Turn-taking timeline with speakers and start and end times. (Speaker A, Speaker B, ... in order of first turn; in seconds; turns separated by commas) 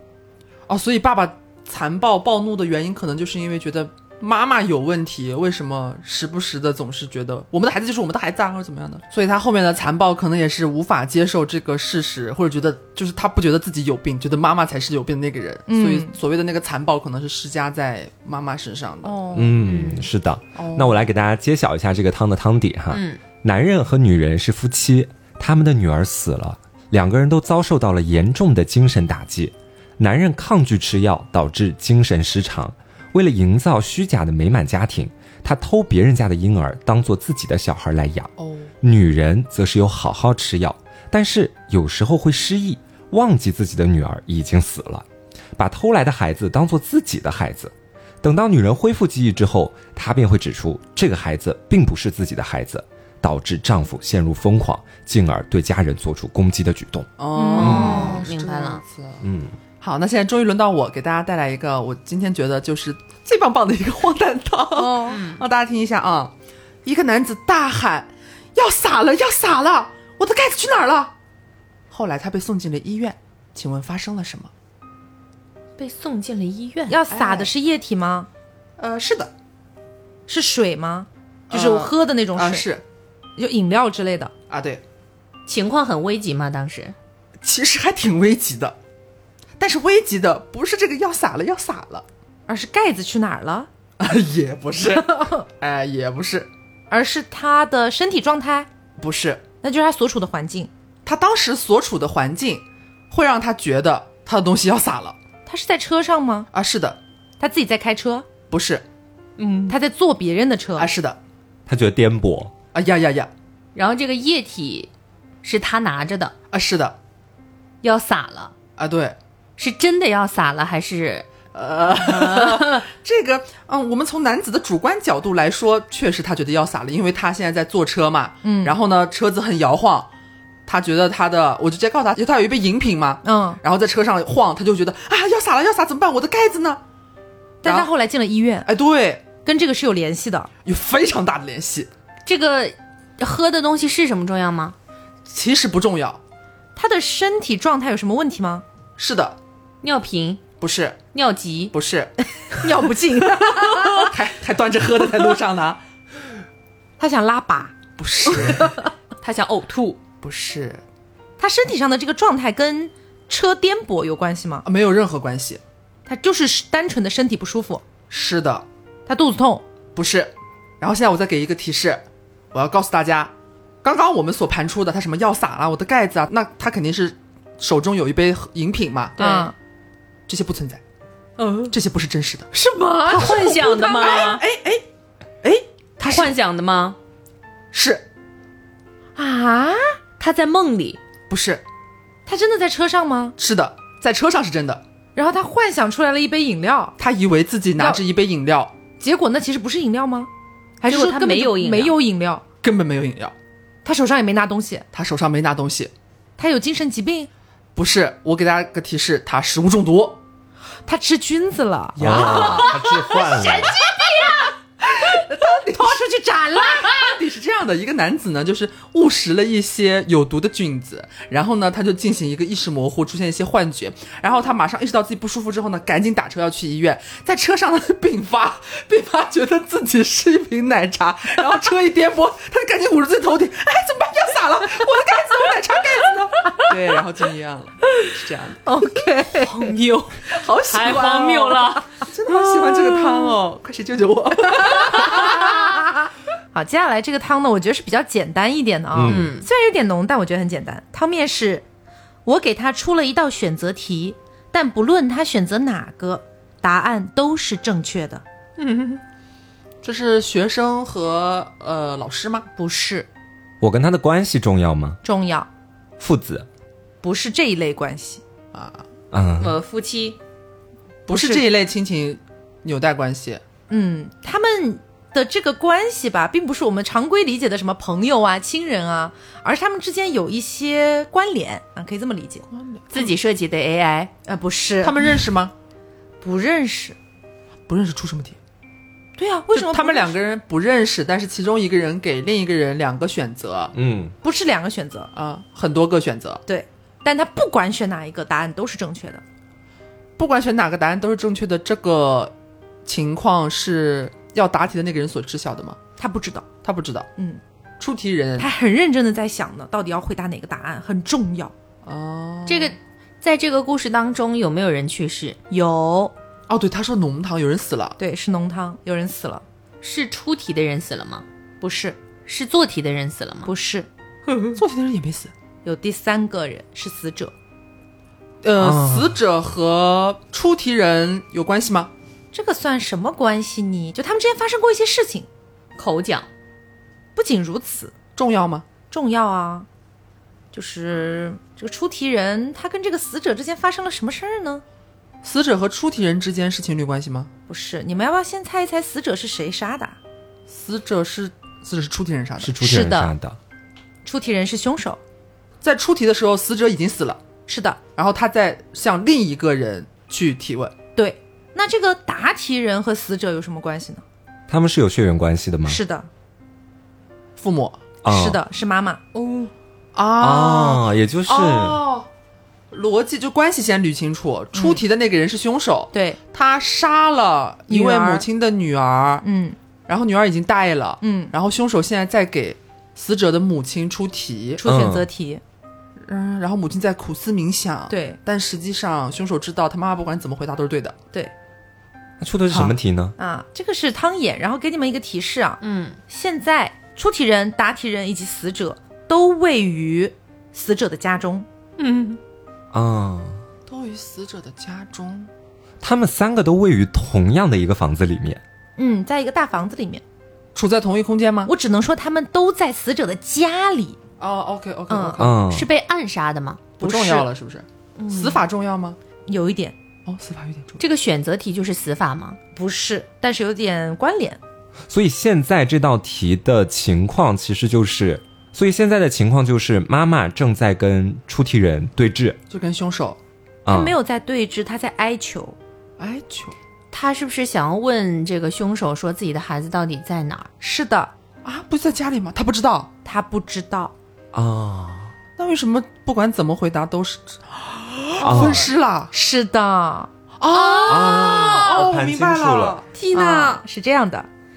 Speaker A: 0.7-19.4, Speaker B: 15.7-16.1, Speaker B: 19.1-19.6, Speaker C: 19.3-45.0, Speaker D: 19.6-20.1, Speaker A: 20.6-21.1, Speaker D: 22.9-23.2, Speaker A: 38.4-38.7, Speaker C: 45.6-57.1, Speaker A: 57.2-59.2, Speaker B: 57.3-58.2, Speaker D: 57.4-58.8, Speaker C: 57.6-58.0, Speaker C: 59.2-59.6, Speaker A: 59.8-66.3, Speaker B: 64.8-65.2, Speaker D: 65.0-65.4, Speaker A: 66.8-71.1, Speaker A: 71.9-74.5, Speaker D: 75.8-77.0, Speaker B: 76.9-78.3, Speaker A: 77.1-77.5, Speaker A: 78.8-79.3, Speaker B: 80.3-82.7, Speaker A: 81.5-82.8, Speaker B: 83.4-84.3, Speaker A: 84.5-84.8, Speaker D: 85.5-86.9, Speaker A: 87.4-88.8, Speaker A: 89.6-92.0, Speaker B: 92.5-93.7, Speaker A: 94.0-96.5, Speaker B: 94.9-95.4, Speaker B: 96.9-98.7, Speaker A: 99.0-99.4, Speaker B: 99.6-100.7, Speaker A: 101.0-105.2, Speaker B: 105.5-106.5, Speaker A: 106.5-107.0, Speaker B: 107.4-108.3, Speaker A: 108.5-108.8, Speaker D: 109.4-109.8, Speaker B: 109.7-110.9, Speaker A: 110.8-111.2, Speaker C: 111.7-112.5, Speaker A: 112.7-113.3, Speaker D: 113.8-114.9, Speaker D: 115.4-116.3, Speaker A: 116.5-117.0, Speaker D: 117.8-118.5, Speaker A: 118.8-119.2, Speaker D: 119.6-121.3, Speaker A: 121.5-130.1, Speaker D: 121.9-122.8, Speaker B: 128.4-128.8, Speaker A: 130.7-136.8, Speaker B: 133.2-133.6, Speaker B: 137.6-138.7, Speaker A: 137.6-137.9, Speaker A: 138.7-139.2, Speaker B: 139.4-140.5, Speaker A: 140.7-141.9, Speaker D: 142.3-144.8, Speaker A: 145.3-146.2, Speaker B: 146.8-148.6, Speaker A: 149.0-149.4, Speaker D: 149.8-150.5, Speaker A: 150.6-151.0, Speaker D: 151.1-151.7, Speaker A: 151.7-152.1, Speaker B: 152.5-154.1, Speaker A: 153.6-155.8, Speaker B: 157.0-157.8, Speaker A: 158.0-158.8, Speaker B: 158.4-158.9, Speaker D: 159.2-160.0, Speaker A: 160.2-160.8, Speaker B: 161.4-164.7, Speaker A: 164.7-165.6, Speaker B: 166.1-167.8, Speaker A: 168.1-168.7, Speaker B: 169.1-169.6, Speaker A: 169.9-179.2, Speaker D: 179.2-179.5, Speaker B: 179.2-179.5, Speaker A: 180.3-180.8, Speaker D: 181.4-181.7, Speaker A: 181.7-182.5, Speaker B: 182.5-184.3, Speaker D: 183.1-184.4, Speaker A: 183.2-184.8, Speaker A: 185.4-186.4, Speaker D: 186.0-187.0, Speaker A: 187.7-188.1, Speaker B: 189.2-190.0, Speaker D: 190.2-191.0, Speaker A: 191.3-191.6, Speaker B: 192.3-193.4, Speaker A: 193.4-194.8, Speaker B: 195.2-197.0, Speaker A: 197.0-198.7, Speaker B: 199.0-200.3, Speaker B: 200.8-202.4, Speaker D: 200.9-202.0, Speaker A: 202.6-203.3, Speaker B: 203.8-204.9, Speaker A: 204.9-205.9, Speaker B: 206.4-207.3, Speaker A: 207.8-210.2, Speaker B: 210.8-214.3, Speaker C: 212.0-213.8, Speaker A: 212.0-213.2, Speaker D: 212.3-212.7, Speaker D: 213.2-214.0, Speaker A: 214.8-216.0, Speaker B: 215.5-217.0, Speaker A: 216.6-238.6, Speaker B: 236.4-236.8, Speaker B: 238.7-239.8, Speaker A: 239.4-245.9, Speaker D: 240.7-241.8, Speaker B: 242.3-243.4, Speaker B: 244.9-245.6, Speaker B: 246.5-251.7, Speaker C: 248.9-249.3, Speaker D: 249.1-249.5, Speaker B: 252.2-258.2, Speaker D: 258.6-259.0, Speaker A: 259.8-262.5, Speaker B: 262.6-263.1, Speaker C: 263.6-265.0, Speaker B: 265.0-265.5, Speaker C: 266.0-266.5, Speaker B: 267.0-268.2, Speaker A: 268.5-268.8, Speaker C: 269.1-269.6, Speaker D: 269.4-270.2, Speaker A: 271.1-273.4, Speaker B: 271.1-271.5, Speaker B: 273.7-282.5, Speaker A: 282.5-283.1, Speaker D: 282.9-284.1, Speaker B: 284.3-285.3, Speaker A: 284.8-285.5, Speaker B: 286.2-287.0, Speaker A: 287.7-288.4, Speaker B: 289.2-290.2, Speaker A: 289.5-293.7, Speaker C: 293.7-294.1, Speaker B: 294.2-295.1, Speaker A: 295.1-296.4, Speaker B: 296.5-299.2, Speaker A: 300.2-302.3, Speaker A: 302.9-305.8, Speaker B: 306.0-306.5, Speaker A: 306.6-307.1, Speaker A: 307.8-308.5, Speaker B: 308.4-311.5, Speaker A: 311.9-312.8, Speaker D: 312.5-315.4, Speaker B: 315.5-316.1, Speaker A: 316.5-318.0, Speaker B: 318.0-319.4, Speaker D: 319.8-321.2, Speaker B: 321.6-322.0, Speaker D: 322.3-323.5, Speaker B: 323.5-323.9, Speaker A: 324.6-325.3, Speaker B: 325.6-327.3, Speaker A: 328.4-331.9, Speaker C: 328.6-329.2, Speaker B: 332.3-335.3, Speaker D: 335.8-336.3, Speaker B: 337.2-337.9, Speaker A: 338.2-338.7, Speaker B: 338.9-339.7, Speaker B: 340.5-344.6, Speaker A: 345.2-347.3, Speaker B: 347.5-350.0, Speaker A: 350.5-352.6, Speaker C: 352.4-353.4, Speaker B: 352.6-353.1, Speaker B: 354.1-355.0, Speaker A: 355.6-357.2, Speaker B: 357.5-357.8, Speaker A: 357.9-360.7, Speaker B: 361.0-364.0, Speaker C: 364.5-365.8, Speaker B: 365.7-366.1, Speaker A: 367.4-367.8, Speaker C: 368.0-368.4, Speaker B: 368.1-369.0, Speaker A: 369.9-372.1, Speaker C: 370.2-371.8, Speaker A: 372.7-379.2, Speaker B: 374.5-374.8, Speaker B: 375.9-376.2, Speaker B: 377.7-378.3, Speaker B: 379.2-379.6, Speaker A: 379.9-384.6, Speaker B: 381.0-381.3, Speaker B: 384.6-385.4, Speaker C: 384.6-385.1, Speaker A: 386.0-391.0, Speaker B: 387.9-388.2, Speaker C: 392.2-393.1, Speaker B: 393.2-401.5, Speaker D: 395.6-396.0, Speaker D: 401.8-402.2, Speaker C: 402.7-403.4, Speaker A: 403.7-405.3, Speaker C: 405.8-408.4, Speaker B: 408.8-410.0, Speaker A: 410.6-411.5, Speaker B: 411.5-414.0, Speaker A: 414.2-415.4, Speaker B: 414.9-415.2, Speaker C: 415.2-415.7, Speaker D: 415.4-416.7, Speaker A: 416.8-419.0, Speaker B: 416.8-417.3, Speaker B: 419.3-419.8, Speaker A: 420.1-420.8, Speaker D: 420.8-422.4, Speaker B: 422.6-424.4, Speaker C: 424.9-432.4, Speaker A: 432.5-433.2, Speaker C: 433.6-434.0, Speaker B: 433.7-435.6, Speaker A: 436.0-436.6, Speaker D: 436.9-440.5, Speaker B: 440.6-441.1, Speaker A: 441.4-442.9, Speaker B: 443.1-443.9, Speaker C: 444.3-445.1, Speaker A: 445.4-449.1, Speaker C: 448.2-448.7, Speaker B: 449.1-450.1, Speaker A: 450.4-453.6, Speaker C: 450.9-452.8, Speaker B: 453.1-454.3